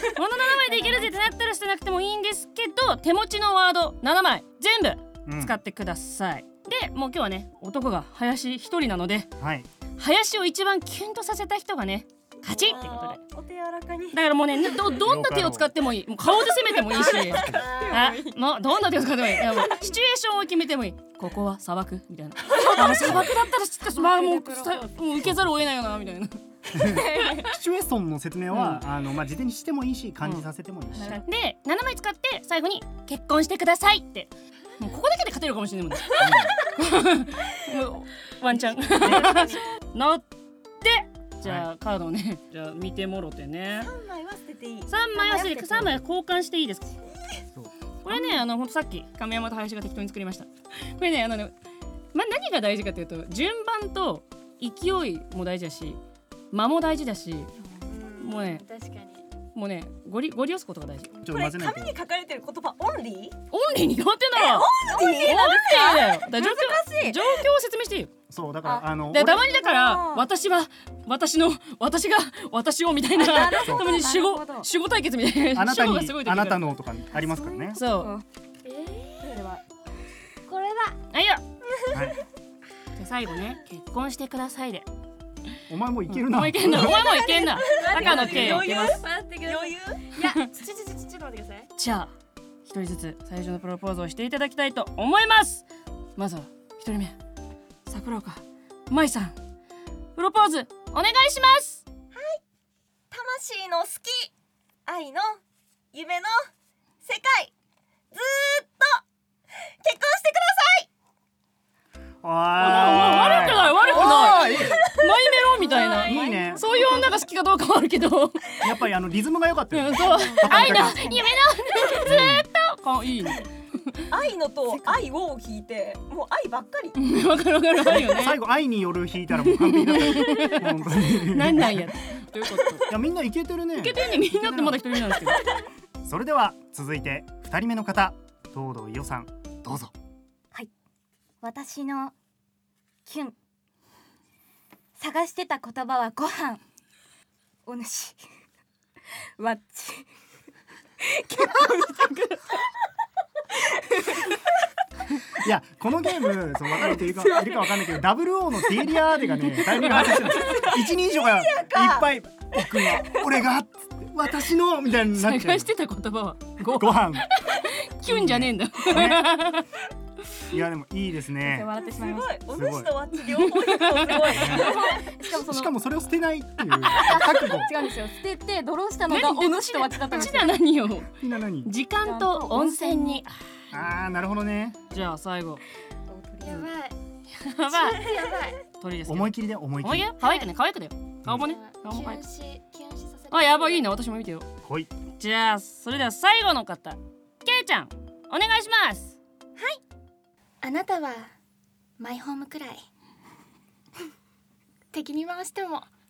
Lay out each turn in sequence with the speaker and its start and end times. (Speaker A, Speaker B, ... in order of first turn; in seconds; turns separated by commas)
Speaker A: 0.1-9.3, Speaker B: 5.2-5.6, Speaker B: 9.4-9.7, Speaker A: 10.0-13.2, Speaker C: 12.5-14.2, Speaker A: 14.1-27.0, Speaker B: 14.9-15.7, Speaker C: 16.9-18.3, Speaker B: 17.2-17.7, Speaker D: 17.6-18.0, Speaker B: 22.9-23.3, Speaker E: 24.0-24.8, Speaker B: 25.2-25.6, Speaker B: 26.7-31.2, Speaker A: 28.5-28.9, Speaker A: 30.2-30.5, Speaker E: 30.9-31.2, Speaker A: 31.0-40.3, Speaker B: 36.2-36.5, Speaker C: 39.0-39.8, Speaker A: 40.8-43.9, Speaker B: 41.4-41.7, Speaker C: 43.8-45.6, Speaker A: 44.9-47.0, Speaker E: 45.3-46.0, Speaker B: 47.5-48.4, Speaker A: 48.0-51.5, Speaker A: 52.1-56.0, Speaker A: 56.5-57.5, Speaker D: 57.7-59.3, Speaker A: 58.2-58.6, Speaker A: 59.5-61.1, Speaker B: 61.2-62.0, Speaker C: 61.2-63.4, Speaker A: 63.5-68.1, Speaker C: 64.3-66.3, Speaker E: 64.9-65.4, Speaker E: 66.4-67.2, Speaker B: 68.3-69.5, Speaker E: 68.6-70.3, Speaker A: 69.1-76.8, Speaker E: 73.2-74.7, Speaker B: 73.6-73.9, Speaker B: 75.5-77.8, Speaker E: 77.1-78.2, Speaker A: 77.7-78.1, Speaker D: 78.6-79.3, Speaker E: 79.2-79.6, Speaker D: 80.5-81.0, Speaker A: 81.1-81.4, Speaker B: 81.9-82.2, Speaker A: 82.9-84.9, Speaker B: 85.7-87.1, Speaker A: 86.1-89.0, Speaker D: 86.9-91.7, Speaker C: 87.2-90.1, Speaker A: 91.8-92.1, Speaker A: 92.7-97.2, Speaker A: 97.9-99.4, Speaker A: 100.2-101.8, Speaker C: 102.1-102.4, Speaker C: 103.1-104.3, Speaker C: 104.9-105.4, Speaker C: 105.9-106.5, Speaker C: 107.0-107.5, Speaker C: 108.1-109.0, Speaker C: 109.8-110.9, Speaker B: 112.2-114.8, Speaker A: 112.6-118.6, Speaker C: 113.9-115.1, Speaker C: 115.9-116.9, Speaker B: 116.0-116.6, Speaker B: 118.6-121.0, Speaker A: 119.7-124.1, Speaker E: 120.0-121.3, Speaker B: 122.0-122.5, Speaker C: 124.1-127.0, Speaker E: 124.7-125.0, Speaker A: 127.0-128.4, Speaker B: 127.8-131.9, Speaker A: 129.4-132.9, Speaker B: 132.9-134.8, Speaker A: 133.8-135.4, Speaker B: 136.0-139.9, Speaker E: 141.4-142.1, Speaker E: 143.1-143.3, Speaker E: 145.0-146.6, Speaker E: 147.7-148.2, Speaker E: 149.4-150.1, Speaker E: 151.1-152.4, Speaker E: 153.9-154.2, Speaker B: 155.4-165.7, Speaker E: 156.9-157.8, Speaker A: 159.8-160.3, Speaker C: 160.2-162.1, Speaker A: 165.2-169.7, Speaker B: 166.6-167.3, Speaker B: 168.0-169.5, Speaker B: 170.5-171.7, Speaker E: 171.4-172.4, Speaker C: 171.9-175.1, Speaker B: 172.5-173.0, Speaker A: 173.4-174.9, Speaker B: 174.3-177.7, Speaker E: 174.7-175.7, Speaker E: 176.8-180.6, Speaker A: 179.1-183.4, Speaker B: 181.2-181.7, Speaker E: 182.0-183.2, Speaker B: 183.7-184.8, Speaker A: 184.9-185.6, Speaker E: 186.1-186.7, Speaker D: 186.4-187.0, Speaker A: 187.3-188.1, Speaker D: 187.7-188.6, Speaker A: 188.8-192.2, Speaker B: 189.1-190.1, Speaker D: 190.2-190.5, Speaker D: 191.3-194.1, Speaker A: 193.3-194.5, Speaker B: 194.6-194.9, Speaker A: 195.2-199.2, Speaker D: 200.6-201.3, Speaker D: 202.0-202.8, Speaker D: 204.9-205.9